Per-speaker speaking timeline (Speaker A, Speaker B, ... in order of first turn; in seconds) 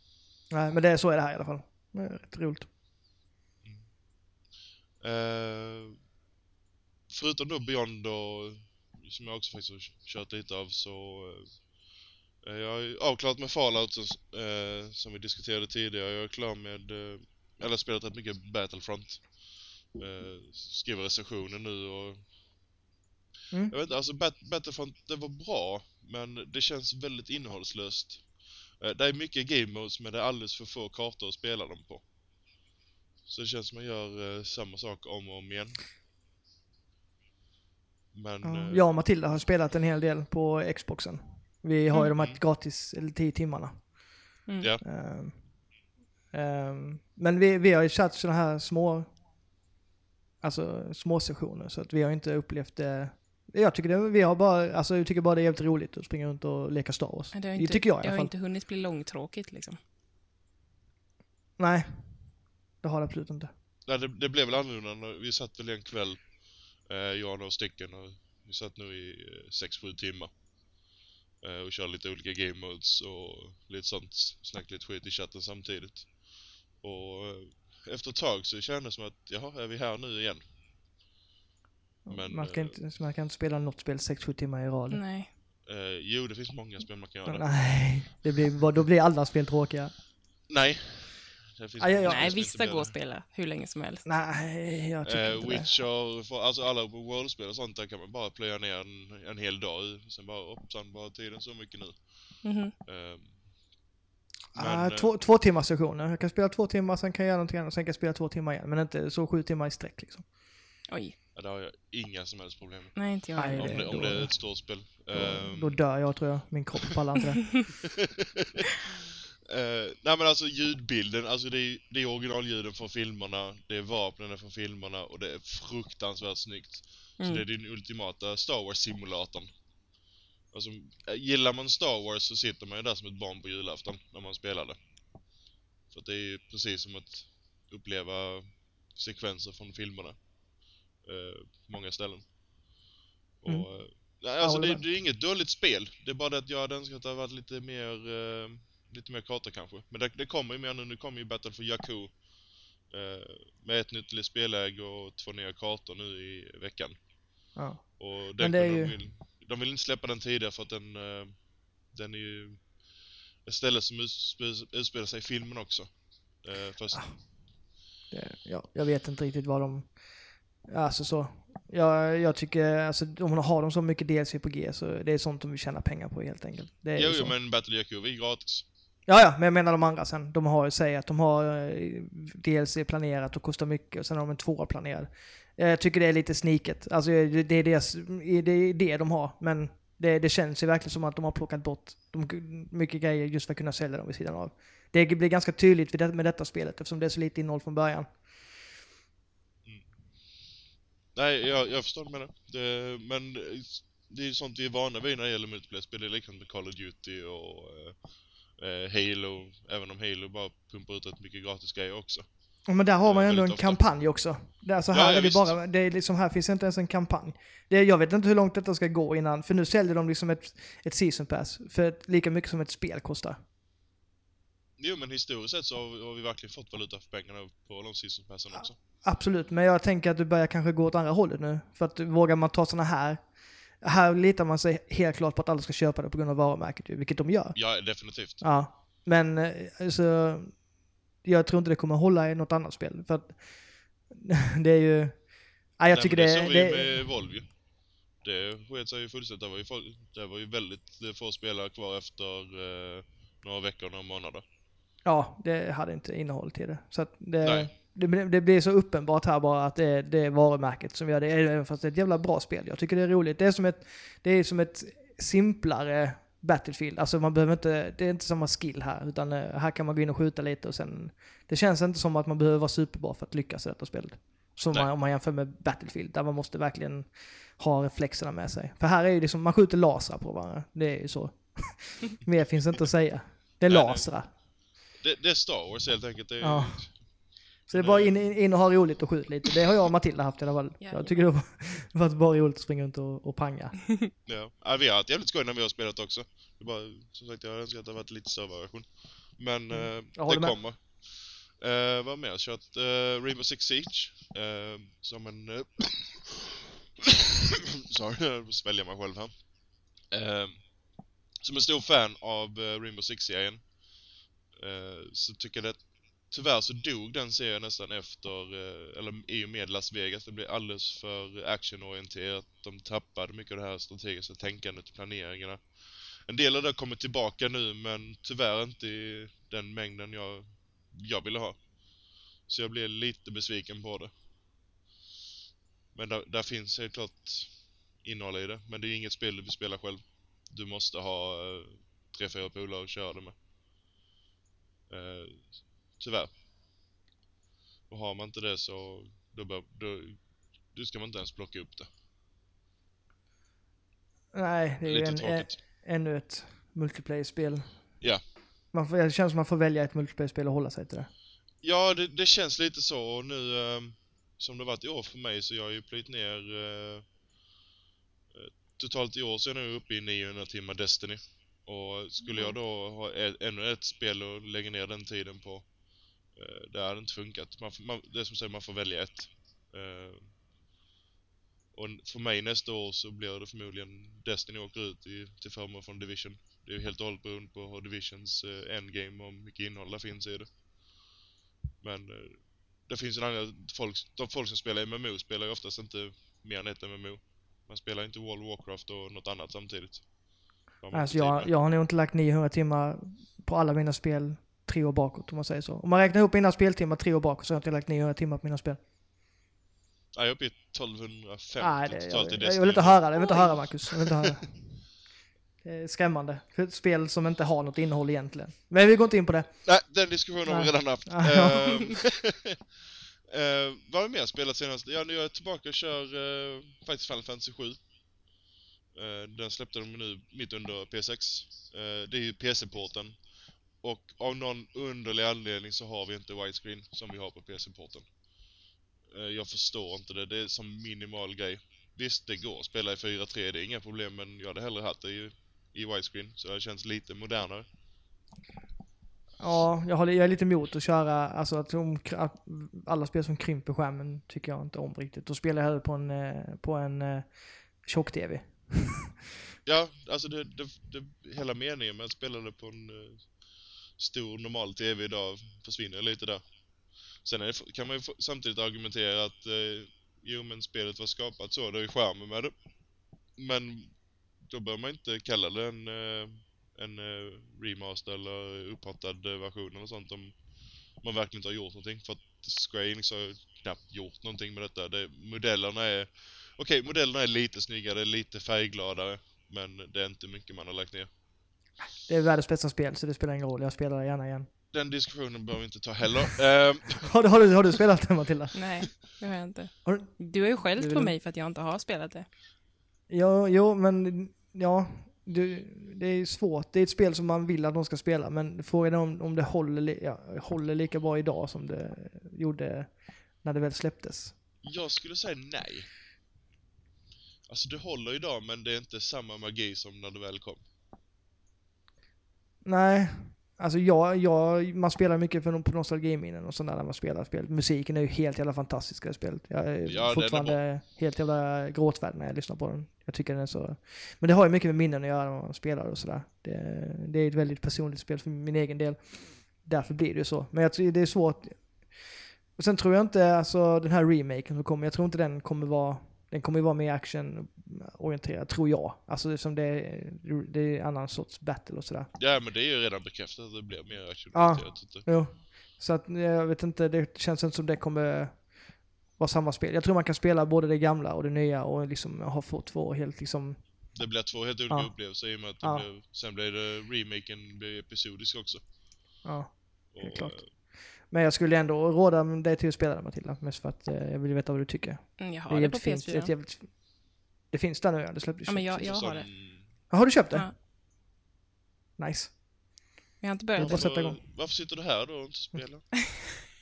Speaker A: 0.5-2.7, 38.4-44.2, 44.8-45.7, 46.3-49.2, 50.4-58.3, 61.6-63.5, 82.0-85.0, 87.3-90.0, 91.8-92.4, 94.0-95.7, 104.5-110.3, 113.3-117.5, 143.5-144.8, 157.6-159.0, 166.9-167.2, 168.1-177.4, 179.1-198.3, 212.7-223.4, 228.8-240.7, 241.2-247.2, 255.1-284.3, 286.4-293.9, 299.7-300.6, 354.3-358.0, 358.7-361.1, 400.9-408.8, 411.6-414.8, 415.6-419.6, 420.5-421.9, 449.4-459.1, 491.8-494.5, 497.0-499.1, 499.9-501.1, 503.1-514.4, 522.6-552.1, 554.3-564.0, 564.7-565.9, 569.2-579.1, 579.9-580.5, 582.0-582.4, 583.6-584.2
Speaker B: 3.6-3.9, 5.0-6.0, 7.1-11.6, 12.4-22.4, 23.7-32.0, 33.3-35.8, 38.1-38.9, 42.2-42.4, 63.9-70.3, 71.4-80.5, 82.1-82.8, 85.7-88.0, 90.5-92.9, 95.0-103.5, 104.5-105.1, 111.3-115.9, 118.2-118.7, 119.5-129.5, 130.5-134.8, 135.9-140.2, 141.0-142.3, 143.4-152.2, 152.8-157.0, 158.0-167.2, 176.9-178.7, 199.6-199.9, 201.2-212.3, 213.0-213.8, 214.9-215.6, 224.8-228.8, 237.6-238.4, 245.9-254.4, 257.4-257.7, 283.7-284.3, 285.0-287.1, 287.7-288.2, 294.3-310.7, 311.3-313.7, 314.5-331.6, 332.4-334.1, 335.9-343.4, 344.9-346.3, 347.9-350.2, 350.7-351.9, 354.9-355.6, 361.6-367.1, 368.3-375.7, 376.3-380.3, 381.7-390.5, 391.8-400.1, 400.8-401.5, 410.1-414.2, 419.6-422.6, 423.3-427.8, 428.9-433.2, 433.8-438.1, 439.1-447.7, 459.6-466.4, 467.2-472.5, 473.4-480.4, 480.9-491.1, 494.7-497.2, 514.6-515.9, 517.5-520.6, 529.8-530.6, 552.2-555.1, 563.9-568.6, 569.9-570.5, 578.8-579.7, 583.6-586.1
Speaker C: 57.3-59.8, 84.9-85.3, 92.0-94.0, 102.4-102.7, 110.9-111.2, 113.0-114.2, 127.2-127.4, 290.8-291.2, 372.3-372.6, 498.5-502.3, 575.2-576.3, 578.5-579.5, 583.2-583.8